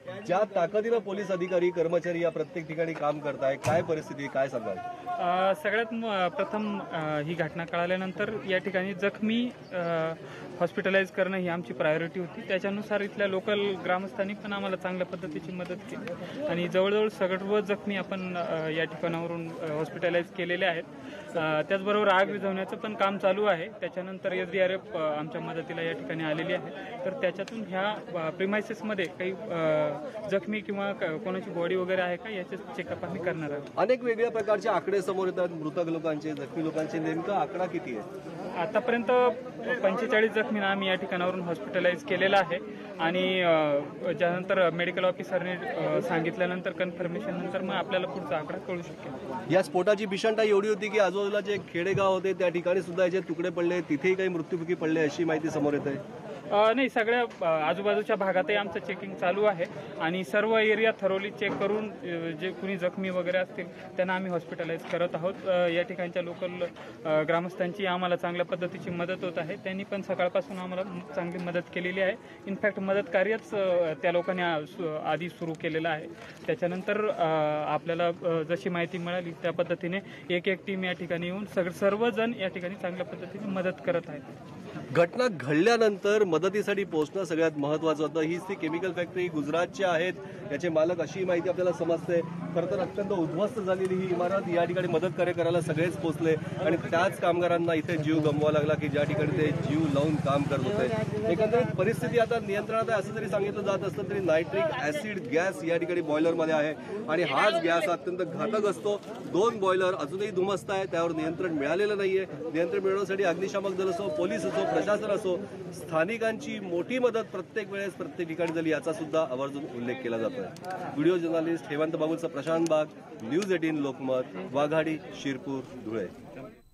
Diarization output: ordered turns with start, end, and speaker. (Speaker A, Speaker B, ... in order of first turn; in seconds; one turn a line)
Speaker A: 0.2-4.8
Speaker B: 5.2-33.6
Speaker A: 33.8-38.1
Speaker B: 38.6-49.1
Speaker A: 49.5-56.0
Speaker B: 56.5-84.3
Speaker A: 84.9-126.1